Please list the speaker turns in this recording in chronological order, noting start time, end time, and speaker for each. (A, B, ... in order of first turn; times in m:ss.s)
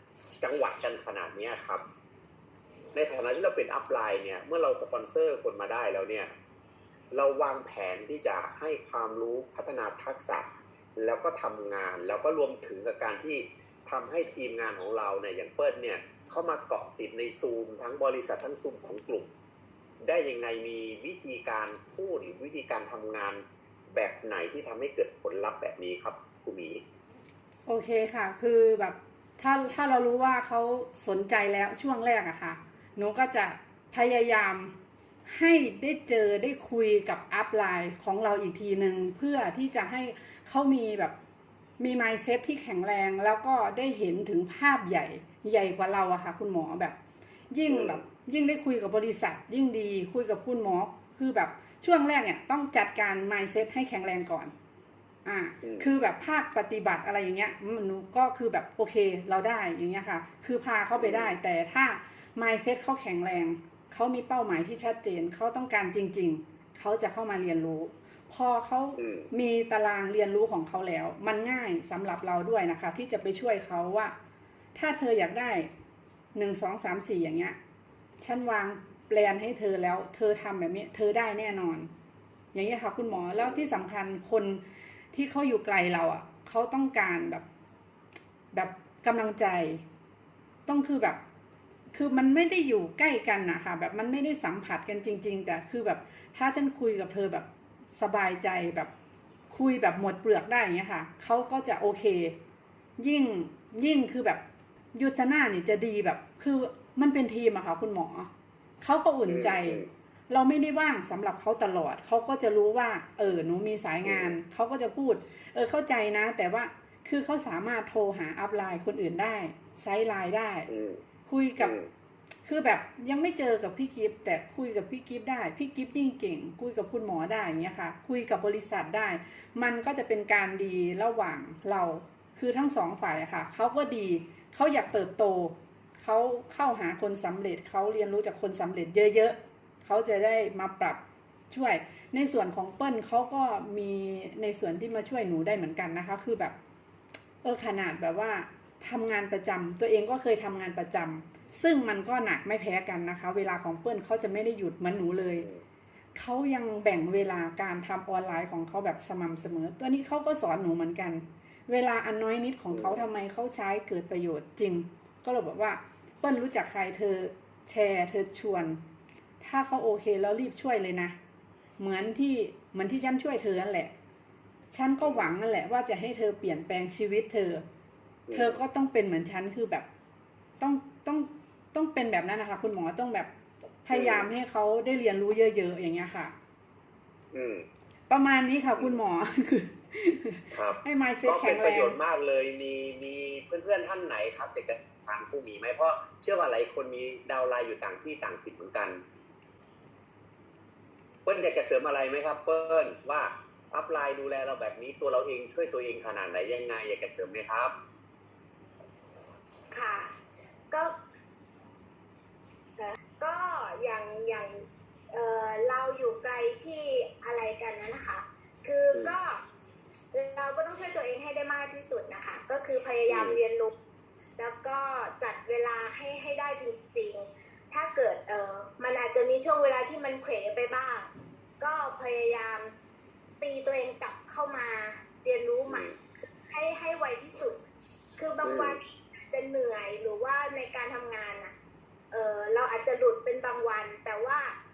0:00.4-0:01.8 A
0:02.9-0:06.3 A
0:07.1-0:19.3 A
0:20.0-0:26.8 A
0:27.7-0:34.8 B
0:35.3-0:41.2 B
0:41.8-0:47.0 B
0:47.5-0:54.5 B
0:47.7-0:48.0 A
0:55.2-1:14.1 B
0:55.6-0:55.9 A
1:01.0-1:01.4 A
1:09.0-1:09.3 A
1:14.8-1:15.7 B
1:16.4-1:17.6 B
1:18.2-1:21.9 B
1:22.5-1:24.6 B
1:23.3-1:23.7 A
1:25.1-1:27.4 B
1:28.5-1:29.8 B
1:30.7-1:31.2 B
1:31.9-1:38.9 B
1:39.5-1:42.4 B
1:43.0-1:44.4 B
1:44.9-1:48.3 B
1:48.8-2:00.7 B
1:49.3-1:49.9 A
1:54.0-1:54.4 A
2:00.7-2:01.0 A
2:01.3-2:01.8 B
2:01.6-2:01.9 A
2:02.5-2:26.6 B
2:27.4-2:35.5 B
2:36.2-2:48.8 B
2:42.7-2:43.0 A
2:49.4-2:51.2 B
2:51.8-2:53.9 B
2:54.7-2:57.6 B
2:55.0-2:55.3 A
2:58.3-2:58.6 A
2:58.3-2:59.9 B
3:00.6-3:03.3 B
3:03.8-3:06.3 B
3:03.9-3:04.3 A
3:07.3-3:07.7 A
3:08.1-3:12.0 B
3:10.5-3:19.0 A
3:21.2-3:27.7 A
3:29.7-3:30.1 C
3:30.7-3:31.0 C
3:32.8-3:39.4 C
3:40.1-3:43.7 C
3:43.1-3:43.4 A
3:44.4-3:52.8 C
3:53.4-3:57.6 C
3:55.7-3:55.9 A
3:58.2-4:01.5 C
3:58.4-3:58.8 A
4:02.1-4:04.6 C